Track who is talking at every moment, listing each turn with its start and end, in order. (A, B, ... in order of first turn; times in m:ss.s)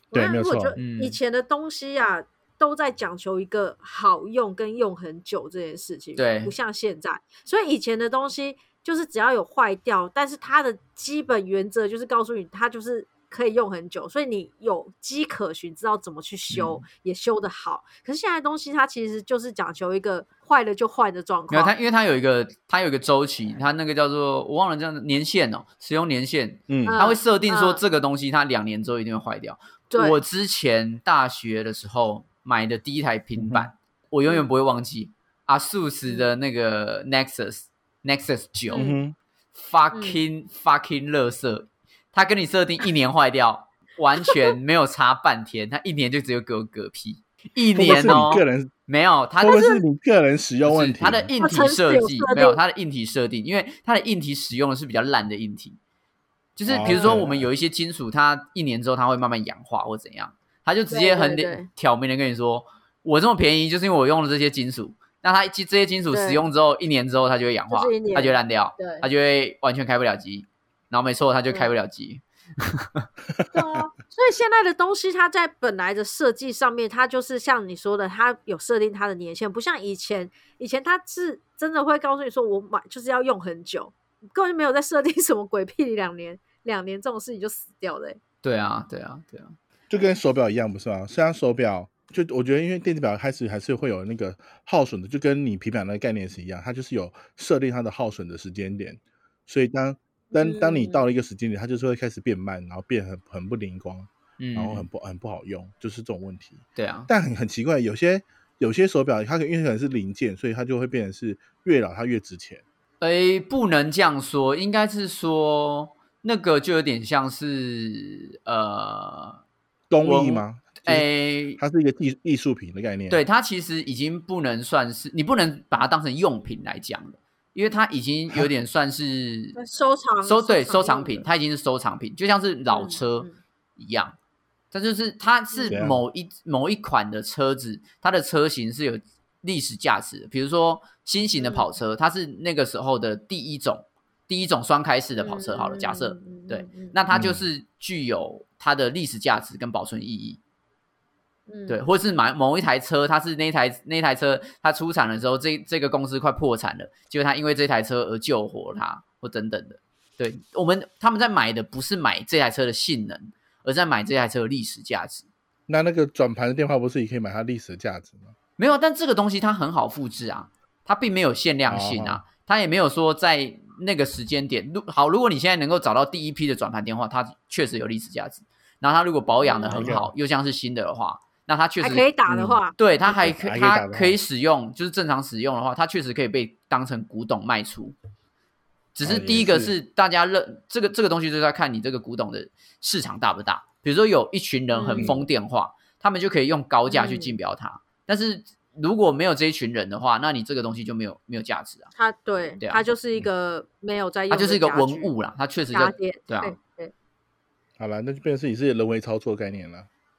0:00.1-0:00.8 A
0:00.1-0:21.7 B
0:00.8-0:01.2 C
0:06.2-0:06.5 C
0:16.5-0:16.8 C
0:21.5-0:38.9 C
0:26.7-0:27.0 A
0:26.9-0:27.8 B
0:29.9-0:30.2 B
0:33.4-0:33.7 A
0:38.7-0:39.0 B
0:38.7-0:39.2 A
0:39.6-0:49.6 C
0:39.9-0:40.2 B
0:47.7-0:48.7 A
0:49.4-0:51.3 A
0:49.5-0:49.8 B
0:50.6-0:55.8 C
0:51.4-0:52.6 B
0:56.6-1:13.1 C
0:56.7-0:57.5 A
0:56.8-0:57.1 B
1:00.9-1:01.7 B
1:06.1-1:06.4 B
1:07.7-1:09.1 B
1:13.5-1:28.2 B
1:28.4-1:29.6 C
1:29.9-1:52.6 A
1:40.3-1:41.0 B
1:44.4-1:44.9 C
1:46.8-1:47.1 C
1:53.0-1:59.4 C
1:59.9-2:03.2 A
2:00.0-2:01.6 C
2:03.1-2:09.6 C
2:09.6-2:11.2 B
2:10.2-2:14.2 C
2:12.7-2:13.4 B
2:14.7-2:30.4 C
2:15.5-2:15.8 B
2:15.7-2:16.0 A
2:21.4-2:21.7 B
2:25.2-2:27.0 B
2:27.1-2:27.4 A
2:31.5-2:31.8 B
2:31.7-2:45.3 C
2:45.7-2:48.3 A
2:48.6-3:08.0 C
2:51.7-2:52.2 A
2:59.4-2:59.9 B
2:59.7-3:00.1 A
3:01.8-3:02.8 B
3:02.3-3:02.6 A
3:03.1-3:04.2 A
3:09.0-3:21.9 C
3:09.0-3:09.7 A
3:14.7-3:15.3 B
3:14.9-3:15.2 A
3:16.9-3:17.4 B
3:22.0-3:25.1 B
3:24.3-3:26.6 C
3:25.7-3:26.9 B
3:27.8-3:29.9 A